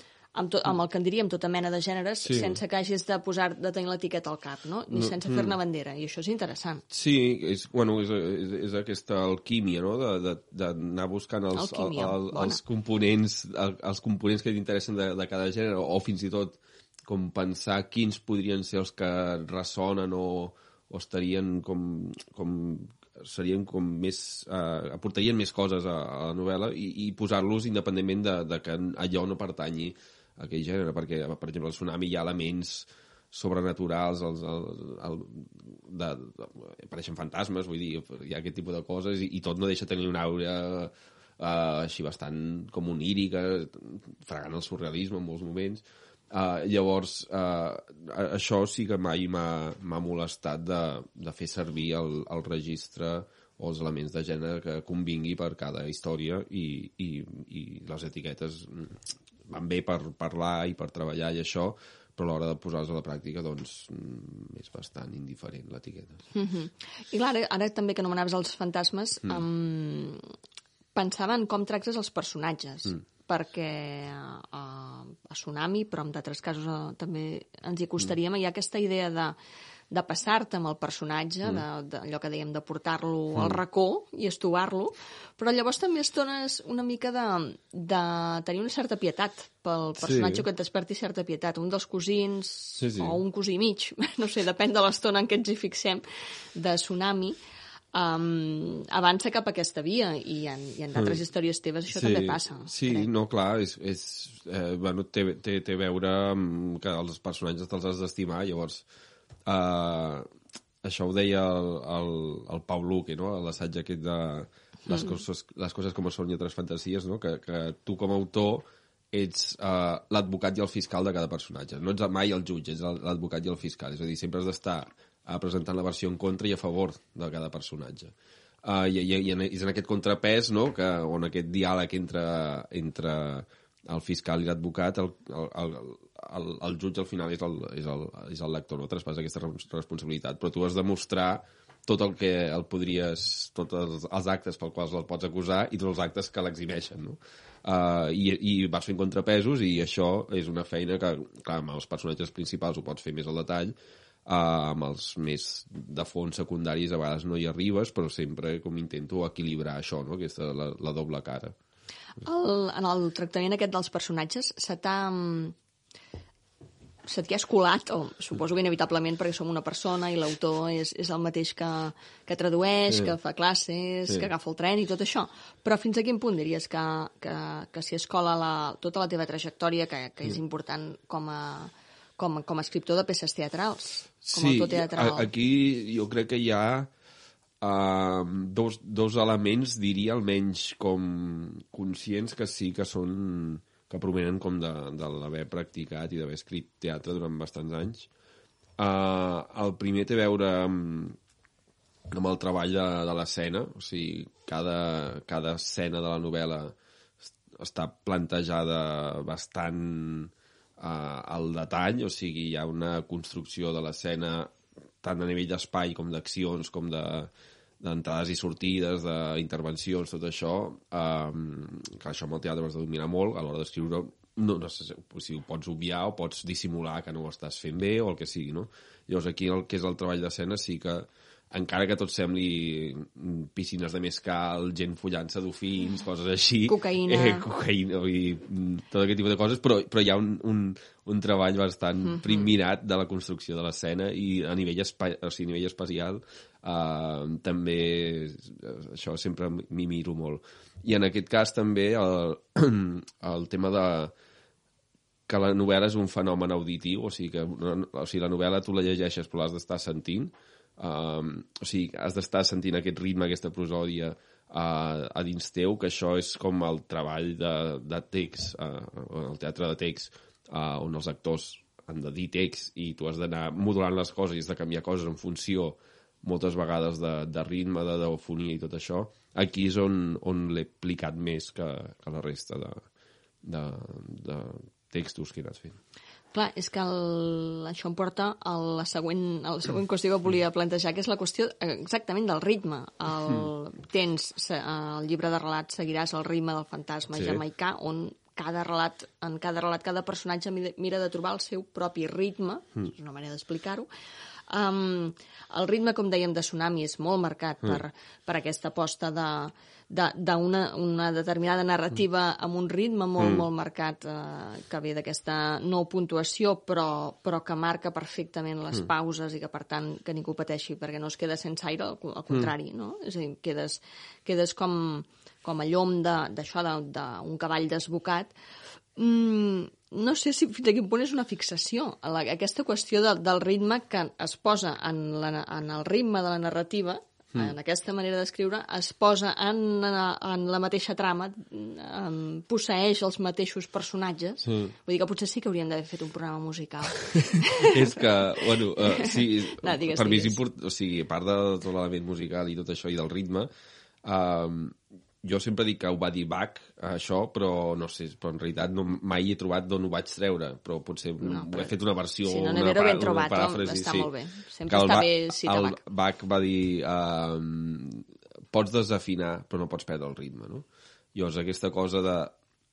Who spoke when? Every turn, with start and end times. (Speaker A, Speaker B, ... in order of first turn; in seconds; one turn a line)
Speaker A: 0.3-6.8
Speaker B: 2.2-2.6
Speaker B: 4.9-5.5
Speaker B: 6.9-66.2
Speaker A: 11.5-12.6
Speaker A: 66.3-70.2
Speaker A: 71.0-79.4
Speaker A: 79.9-96.0
Speaker B: 90.0-90.5
Speaker B: 92.8-93.2
Speaker A: 96.5-97.4
Speaker A: 97.9-103.1
Speaker B: 101.9-108.8
Speaker B: 109.5-110.3
Speaker B: 110.8-128.1
Speaker B: 128.6-161.6
Speaker A: 162.2-165.6
Speaker A: 167.1-185.3
Speaker B: 172.9-173.1
Speaker B: 184.2-186.9
Speaker B: 187.6-198.1
Speaker B: 198.8-201.2
Speaker B: 202.1-254.1
Speaker A: 236.7-237.5
Speaker A: 242.1-242.5
Speaker B: 255.3-282.8
Speaker B: 283.4-285.8
Speaker A: 286.3-303.9
Speaker B: 297.1-297.4
Speaker A: 304.5-328.3
Speaker B: 313.2-313.4
Speaker A: 329.0-348.1
Speaker B: 344.5-344.7
Speaker B: 347.6-353.5
Speaker A: 348.6-350.4
Speaker B: 354.0-364.1
Speaker A: 361.2-365.8
Speaker B: 364.7-372.4